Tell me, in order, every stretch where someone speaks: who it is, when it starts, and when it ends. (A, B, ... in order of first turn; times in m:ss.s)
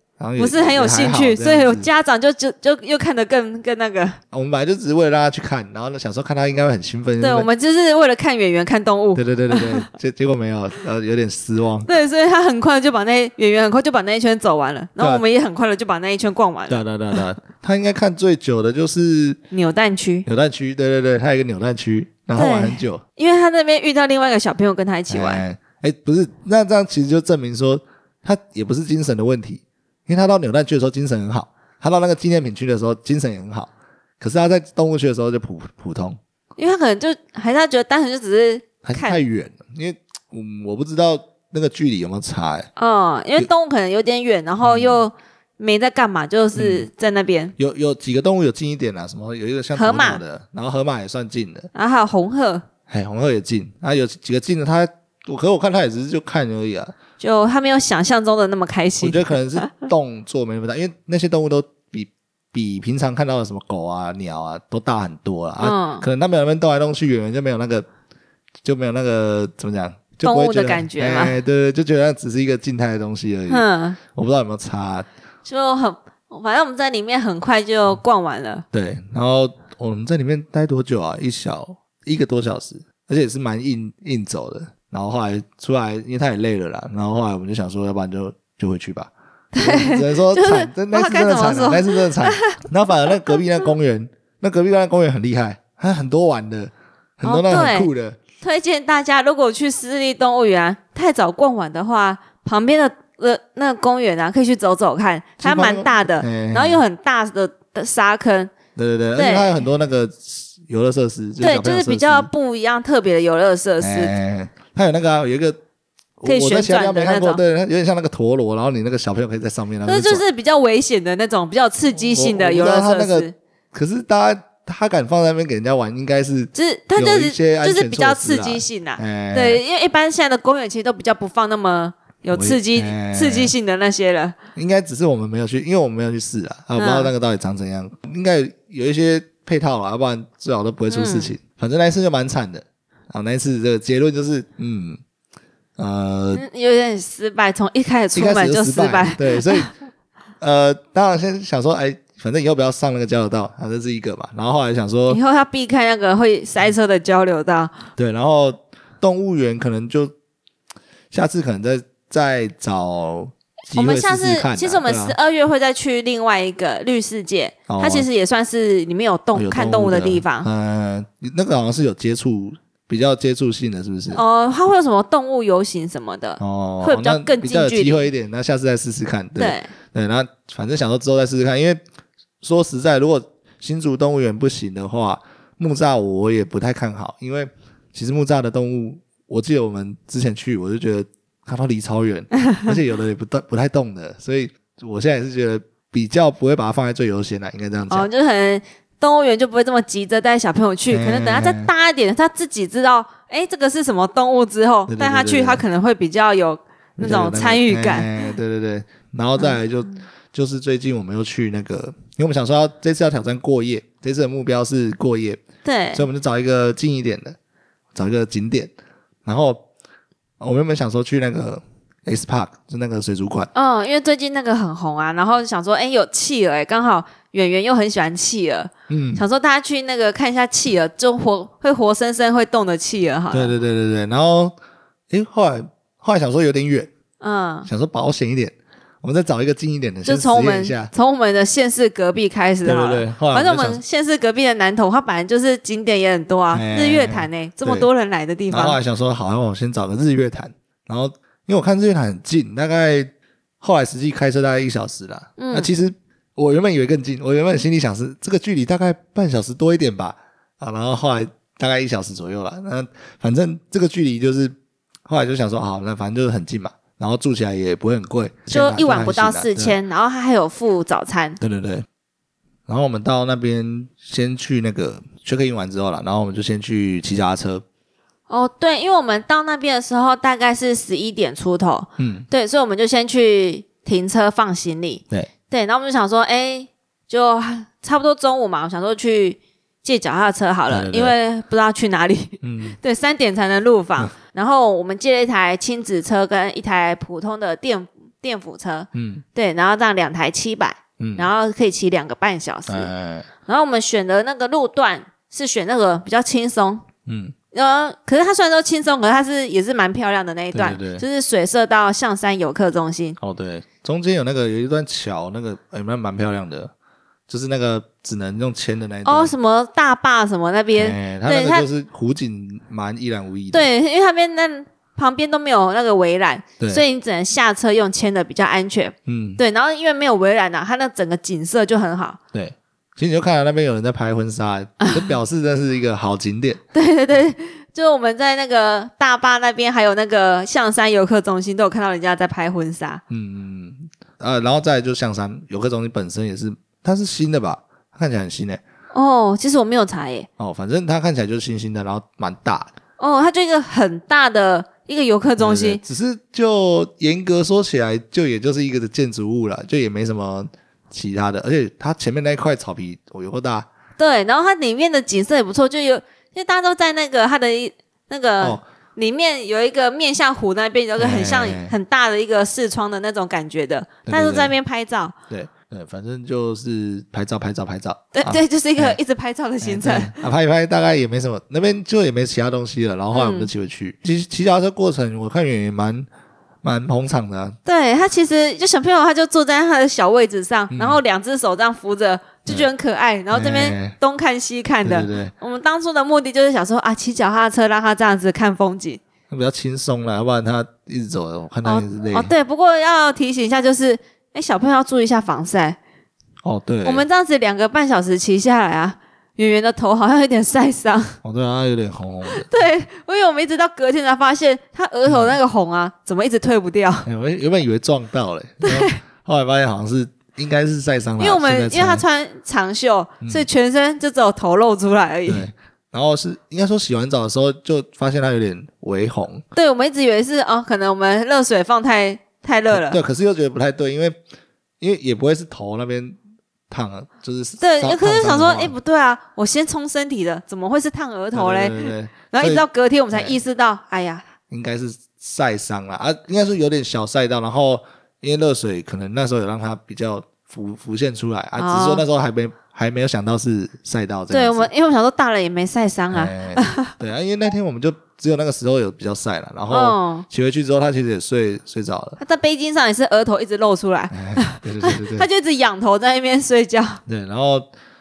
0:00.2-0:01.9 A
0:00.4-0:04.2 B
0:04.3-0:07.5 A
0:07.2-0:09.9 B
0:09.1-0:11.9 A
0:11.8-0:16.8 B
0:16.7-0:19.4 A
0:19.5-0:20.2 B
0:20.2-0:23.0 A
0:22.3-0:25.4 B
0:25.1-0:36.2 A
0:36.6-0:39.2 B
0:38.8-0:42.7 A
0:42.8-0:47.6 B
0:44.6-0:45.0 A
0:46.6-0:46.8 A
0:47.6-0:51.7 A
0:49.7-0:50.2 B
0:51.7-0:52.6 B
0:52.9-0:56.9 A
0:57.2-0:59.8 B
0:59.0-1:07.8 A
1:05.6-1:06.1 B
1:08.6-1:15.1 A
1:10.2-1:11.4 B
1:13.5-1:14.0 B
1:15.4-1:18.6 B
1:18.7-1:38.2 A
1:29.5-1:32.6 B
1:37.2-1:48.5 B
1:45.4-1:46.8 A
1:48.8-1:52.3 A
1:49.2-1:49.6 B
1:51.4-1:54.1 B
1:53.8-1:55.6 A
1:56.2-2:00.2 A
1:56.2-1:57.4 B
1:59.8-2:03.3 B
2:01.9-2:09.6 A
2:06.5-2:14.3 B
2:12.3-2:13.5 A
2:14.6-2:25.0 A
2:16.8-2:17.1 B
2:20.9-2:21.3 B
2:25.8-2:26.4 A
2:26.3-2:29.7 B
2:28.1-2:29.7 A
2:30.4-2:35.2 A
2:35.1-2:37.8 B
2:38.0-2:40.1 A
2:41.1-2:45.2 A
2:43.7-2:50.5 B
2:47.7-2:48.1 A
2:49.3-2:54.2 A
2:54.1-2:58.1 B
2:56.4-3:01.8 A
2:59.4-2:59.7 B
3:02.4-3:18.1 A
3:17.9-3:28.1 B
3:20.9-3:21.7 A
3:24.9-3:25.6 A
3:27.0-3:35.4 A
3:35.6-3:36.1 B
3:35.9-3:37.4 A
3:37.9-3:38.7 A
3:39.2-3:39.6 A
3:40.4-3:43.5 A
3:43.5-3:53.5 B
3:48.9-3:49.2 A
3:53.3-3:54.6 A
3:55.1-3:56.9 A
3:57.2-3:57.7 B
3:57.7-4:00.9 A
4:00.0-4:08.8 B
4:02.6-4:03.8 A
4:06.5-4:07.9 A
4:08.5-4:24.6 A
4:15.4-4:15.7 B
4:25.1-4:29.8 A
4:28.5-4:31.4 B
4:31.4-4:31.8 A
4:32.7-4:37.6 A
4:38.3-5:02.9 B
4:42.0-4:42.2 A
4:50.7-4:51.2 A
4:52.4-4:52.8 A
4:58.9-4:59.2 A
5:01.0-5:01.3 A
5:02.7-5:03.3 A
5:03.4-5:06.8 B
5:07.1-5:07.3 A
5:07.5-5:13.2 B
5:10.5-5:11.0 A
5:13.2-5:16.7 A
5:17.3-5:19.3 A
5:19.0-5:21.7 B
5:20.7-5:23.7 A
5:23.5-5:32.2 B
5:29.1-5:29.4 A
5:32.3-5:36.6 A
5:34.8-5:35.1 B
5:36.7-5:43.0 B
5:43.1-5:48.6 A
5:48.9-5:50.3 B
5:50.4-5:52.7 A
5:53.0-5:55.8 B
5:55.4-6:03.7 A
6:04.0-6:15.2 B
6:11.0-6:11.7 A
6:14.1-6:14.5 A
6:15.3-6:19.0 A
6:18.2-6:20.2 B
6:19.6-6:26.1 A
6:23.1-6:23.5 B
6:26.6-6:27.6 A
6:27.6-6:39.0 B
6:30.7-6:31.0 A
6:33.3-6:33.9 A
6:34.8-6:35.3 A
6:39.3-6:42.3 A
6:41.6-6:45.8 B
6:46.4-6:47.0 A
6:46.8-6:51.2 B
6:51.2-6:52.5 A
6:52.3-6:57.1 B
6:55.1-6:55.4 A
6:57.0-7:02.0 A
6:58.6-6:59.0 B
7:01.2-7:05.5 B
7:03.2-7:03.5 A
7:05.2-7:09.4 A
7:09.6-7:13.0 B
7:12.7-7:14.2 A
7:14.8-7:16.2 A
7:16.7-7:18.7 A
7:17.6-7:24.2 B
7:21.3-7:23.4 A
7:24.5-7:34.7 A
7:31.6-7:32.0 B
7:34.3-7:36.9 B
7:36.1-7:42.2 A
7:39.7-7:40.2 B
7:42.2-7:47.0 B
7:44.1-7:45.3 A
7:47.1-7:47.7 A